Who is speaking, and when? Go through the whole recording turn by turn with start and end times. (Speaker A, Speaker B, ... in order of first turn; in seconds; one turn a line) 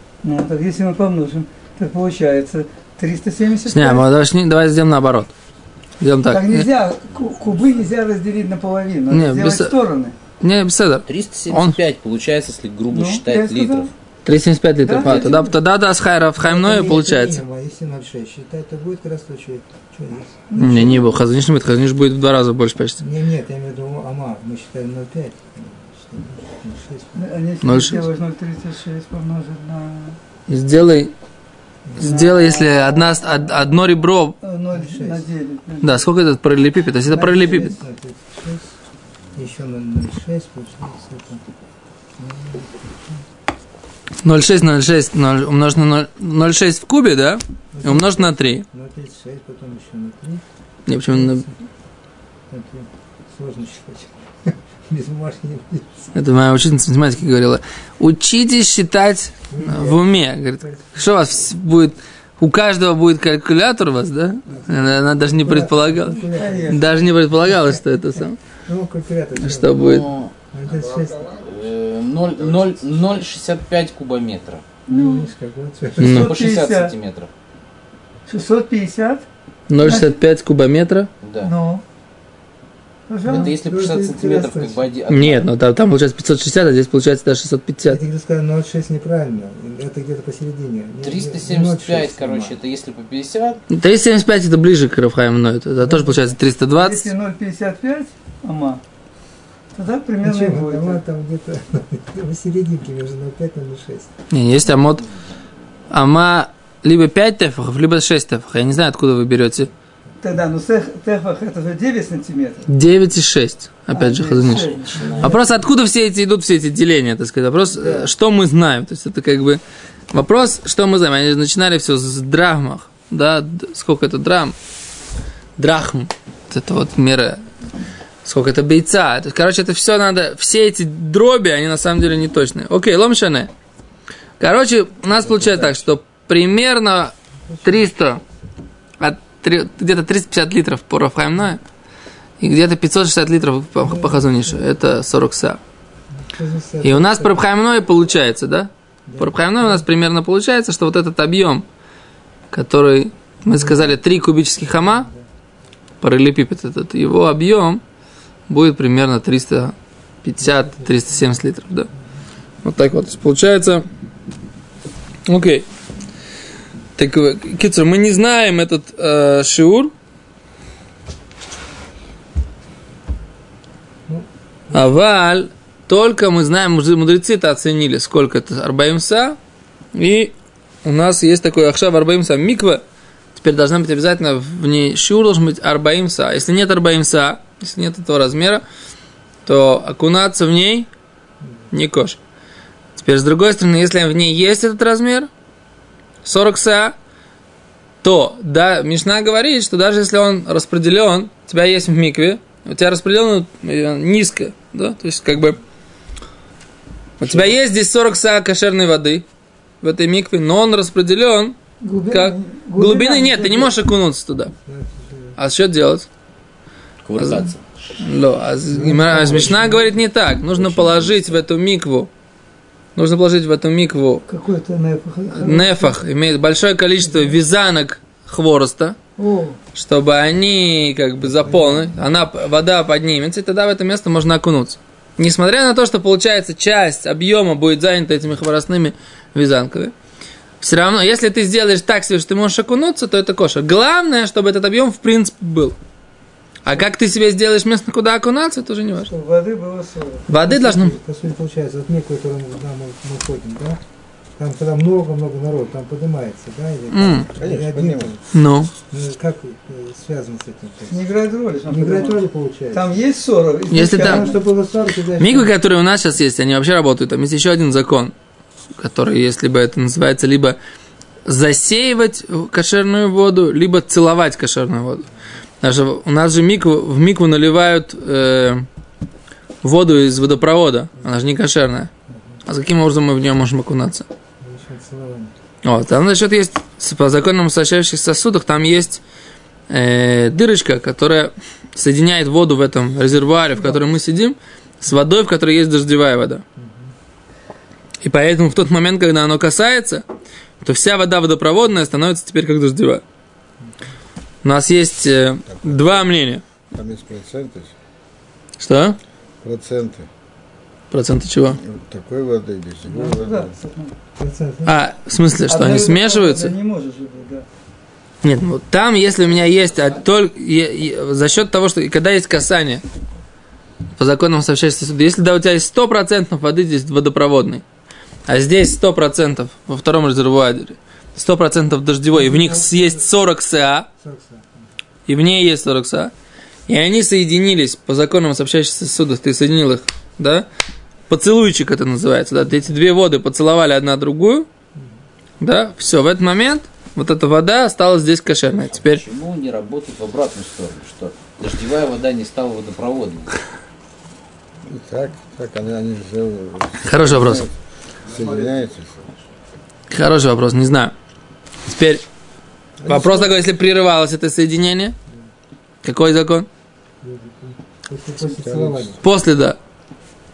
Speaker A: 0.2-4.1
Speaker B: 3.7-5.3
Speaker B: 6.0-6.7
Speaker A: 6.3-10.2
Speaker B: 9.1-9.8
Speaker B: 10.4-11.8
Speaker C: 11.1-13.9
Speaker A: 12.9-13.9
Speaker B: 14.2-17.4
Speaker A: 14.8-15.6
Speaker D: 15.1-15.3
Speaker D: 16.4-21.0
Speaker A: 20.5-21.1
Speaker B: 20.6-23.0
Speaker D: 23.0-27.3
Speaker A: 27.1-30.2
Speaker B: 27.6-28.1
Speaker B: 30.5-31.1
Speaker D: 31.9-32.4
Speaker B: 32.0-34.4
Speaker A: 32.0-33.2
Speaker A: 34.4-36.1
Speaker D: 34.7-35.3
Speaker B: 35.8-37.8
Speaker D: 37.0-38.8
Speaker D: 39.3-41.4
Speaker D: 42.2-43.2
Speaker B: 44.2-48.6
Speaker D: 47.7-50.4
Speaker B: 50.9-51.5
Speaker D: 51.1-51.6
Speaker D: 52.5-56.1
Speaker B: 56.1-68.4
Speaker D: 59.5-61.1
Speaker D: 64.5-67.8
Speaker A: 66.3-67.1
Speaker D: 68.6-70.0
Speaker B: 69.4-70.1
Speaker C: 69.8-70.3
Speaker D: 70.5-71.3
Speaker E: 70.7-71.6
Speaker C: 71.4-74.6
Speaker E: 72.4-72.8
Speaker A: 74.9-75.3
Speaker D: 74.9-76.3
Speaker A: 76.0-76.9
Speaker C: 76.0-77.3
Speaker B: 76.0-76.3
Speaker A: 78.3-79.2
Speaker B: 79.7-81.1
Speaker A: 79.8-80.2
Speaker C: 81.2-81.5
Speaker A: 81.4-81.8
Speaker A: 83.1-83.5
Speaker C: 83.3-85.5
Speaker D: 83.3-84.9
Speaker B: 85.1-88.0
Speaker D: 87.8-92.6
Speaker C: 91.0-93.6
Speaker B: 93.7-97.1
Speaker D: 95.8-96.4
Speaker A: 96.8-98.8
Speaker A: 99.7-101.0
Speaker D: 100.2-104.1
Speaker B: 104.3-105.1
Speaker B: 105.9-109.7
Speaker A: 110.2-112.7
Speaker B: 112.7-119.6
Speaker A: 113.9-115.4
Speaker C: 114.9-115.2
Speaker D: 115.0-115.6
Speaker A: 117.7-118.1
Speaker B: 120.1-124.5
Speaker B: 125.6-127.4
Speaker B: 128.2-133.5
Speaker B: 134.4-138.2
Speaker D: 135.2-135.9
Speaker D: 137.5-137.9
Speaker B: 139.0-141.6
Speaker B: 142.4-145.6
Speaker D: 143.8-144.8
Speaker D: 146.2-147.4
Speaker B: 146.8-151.7
Speaker D: 149.1-149.9
Speaker B: 152.5-155.1
Speaker D: 153.4-154.0
Speaker D: 154.6-155.3
Speaker B: 156.0-157.8
Speaker B: 158.5-161.9
Speaker D: 160.4-161.4
Speaker B: 162.6-163.8
Speaker B: 165.3-165.7
Speaker B: 167.0-169.9
Speaker D: 174.1-174.9
Speaker B: 174.7-179.4
Speaker B: 179.9-180.3
Speaker B: 180.8-182.8
Speaker B: 183.3-188.6
Speaker B: 189.4-190.9
Speaker B: 191.7-192.2
Speaker B: 193.0-195.3
Speaker B: 196.2-196.9
Speaker B: 198.0-205.6
Speaker B: 207.2-209.3
Speaker B: 209.8-211.6
Speaker A: 211.8-213.7
Speaker B: 212.1-214.5
Speaker D: 214.7-215.4
Speaker B: 215.4-216.1
Speaker C: 217.0-217.6
Speaker B: 217.2-222.1
Speaker D: 218.7-220.0
Speaker B: 223.0-224.2
Speaker A: 224.3-226.0
Speaker B: 225.3-229.0
Speaker A: 227.1-227.3
Speaker A: 229.2-229.6
Speaker B: 229.8-239.9
Speaker D: 231.2-232.0
Speaker B: 240.6-245.8
Speaker B: 246.6-249.1
Speaker A: 249.0-250.3
Speaker B: 250.3-250.9
Speaker D: 250.4-253.8
Speaker D: 254.4-258.2
Speaker B: 256.9-257.3
Speaker E: 257.4-258.1
Speaker B: 258.3-258.7
Speaker D: 258.8-261.0
Speaker A: 260.9-262.2
Speaker D: 261.7-262.9
Speaker A: 262.7-264.4
Speaker B: 263.7-264.3
Speaker D: 263.8-265.5
Speaker B: 265.2-268.1
Speaker B: 268.8-270.6
Speaker B: 271.3-275.1
Speaker B: 275.6-278.7
Speaker B: 279.6-281.9
Speaker B: 282.5-284.1
Speaker D: 284.4-285.3
Speaker B: 285.6-289.0
Speaker B: 289.7-296.4
Speaker D: 293.6-293.9
Speaker D: 296.6-296.9
Speaker B: 298.0-300.1
Speaker B: 300.6-303.0
Speaker B: 304.4-306.4
Speaker E: 305.5-306.1
Speaker E: 306.7-307.7
Speaker B: 308.6-309.0
Speaker E: 309.4-310.1
Speaker B: 310.9-311.6
Speaker E: 311.5-313.5
Speaker A: 312.9-313.9
Speaker D: 314.2-314.8
Speaker B: 314.7-316.5
Speaker A: 315.5-317.5
Speaker B: 318.2-322.8
Speaker B: 324.0-327.6
Speaker B: 328.3-333.9
Speaker D: 332.1-333.1
Speaker D: 334.0-334.7
Speaker B: 335.1-336.1
Speaker B: 336.7-340.5
Speaker B: 341.1-344.5
Speaker B: 345.4-349.0
Speaker C: 348.5-353.4
Speaker E: 354.6-359.2
Speaker B: 356.8-357.4
Speaker B: 359.9-360.9
Speaker B: 361.7-362.0
Speaker D: 362.8-363.4
Speaker B: 362.9-365.0
Speaker B: 365.8-366.5
Speaker D: 367.0-369.0
Speaker E: 368.3-369.0
Speaker B: 369.0-369.6